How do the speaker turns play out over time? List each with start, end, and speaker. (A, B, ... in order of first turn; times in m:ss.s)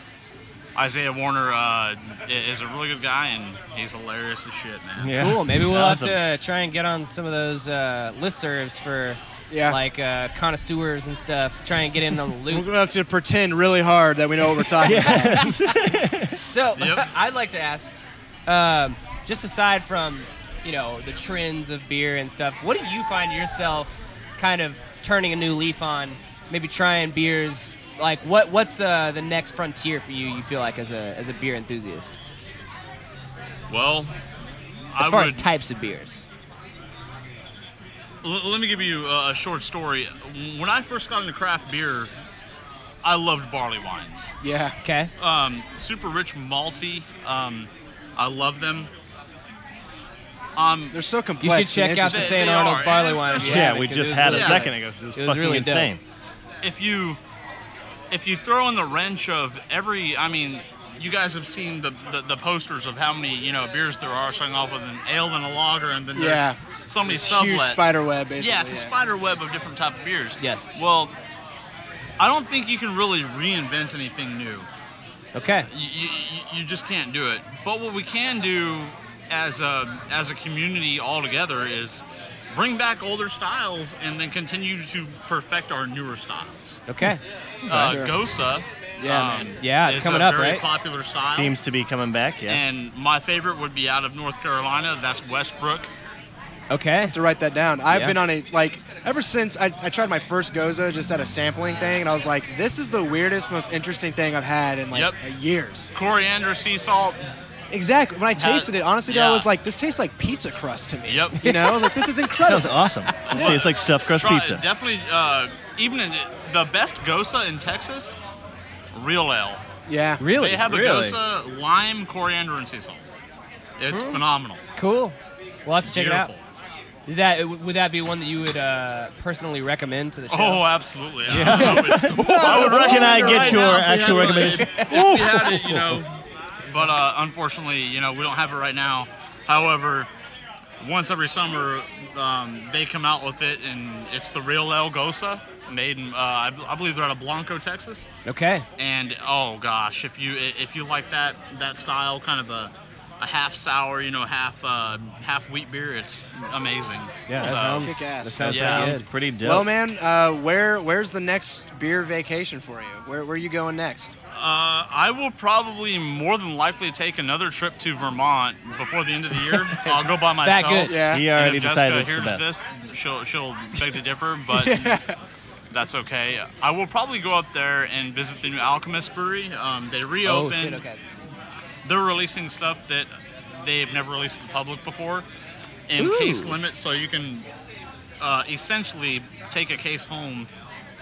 0:00.8-0:05.2 A
0:05.0-0:06.2 B
0:05.1-0:12.6 C
0:09.5-0:09.8 D
0:12.5-0:15.4 D
0:14.8-0:16.4 B
0:14.8-0:15.7 C
0:16.4-0:17.9 C
0:16.8-0:17.1 A
0:18.5-0:32.2 C
0:33.7-0:34.1 A
0:35.0-0:35.4 A
0:35.0-0:36.2 C
0:38.2-0:42.1 A
0:43.0-0:44.3 A
0:44.4-0:44.8 D
0:44.8-0:45.1 C
0:45.2-0:48.9 A
0:50.6-0:51.0 A
0:50.9-0:52.4 D
0:51.4-0:55.9 C
0:52.1-0:54.7 A
0:53.4-0:56.0 B
0:56.6-0:57.2 A
0:58.1-1:11.1 A
1:06.1-1:08.9 D
1:10.4-1:10.8 C
1:12.2-1:14.7 A
1:15.4-1:15.7 C
1:15.7-1:26.8 A
1:26.9-1:27.2 C
1:27.7-1:31.6 A
1:27.7-1:27.9 B
1:27.7-1:28.1 D
1:29.0-1:29.5 D
1:29.6-1:30.6 C
1:31.4-1:32.6 B
1:32.5-1:35.9 A
1:36.7-1:37.2 C
1:37.1-1:45.9 D
1:44.9-1:45.2 A
1:45.9-1:47.3 A
1:47.7-1:53.5 D
1:48.4-1:49.5 A
1:51.1-1:51.4 A
1:51.4-1:51.9 C
1:52.4-1:54.6 B
1:53.2-1:58.2 A
1:58.9-1:59.6 A
1:59.9-2:00.3 D
2:00.2-2:00.6 C
2:00.3-2:03.1 A
2:00.6-2:01.2 B
2:03.8-2:04.6 A
2:03.9-2:04.2 C
2:04.8-2:06.3 C
2:05.8-2:06.4 A
2:07.1-2:10.6 C
2:10.3-2:16.1 A
2:11.3-2:16.0 B
2:11.4-2:13.6 C
2:11.6-2:13.7 D
2:14.3-2:15.5 C
2:16.7-2:20.1 A
2:20.8-2:28.1 A
2:28.2-2:28.6 C
2:28.8-2:37.9 A
2:37.3-2:39.7 B
2:37.3-2:39.1 C
2:37.8-2:38.7 D
2:38.5-2:38.9 A
2:39.4-2:44.2 D
2:44.3-2:55.0 A
2:49.5-2:50.9 C
2:50.9-2:51.3 D
2:51.1-2:52.5 B
2:54.5-2:55.2 D
2:55.7-3:00.8 A
3:00.2-3:01.0 C
3:01.8-3:05.3 A
3:05.9-3:07.5 A
3:06.0-3:06.6 C
3:08.2-3:10.5 A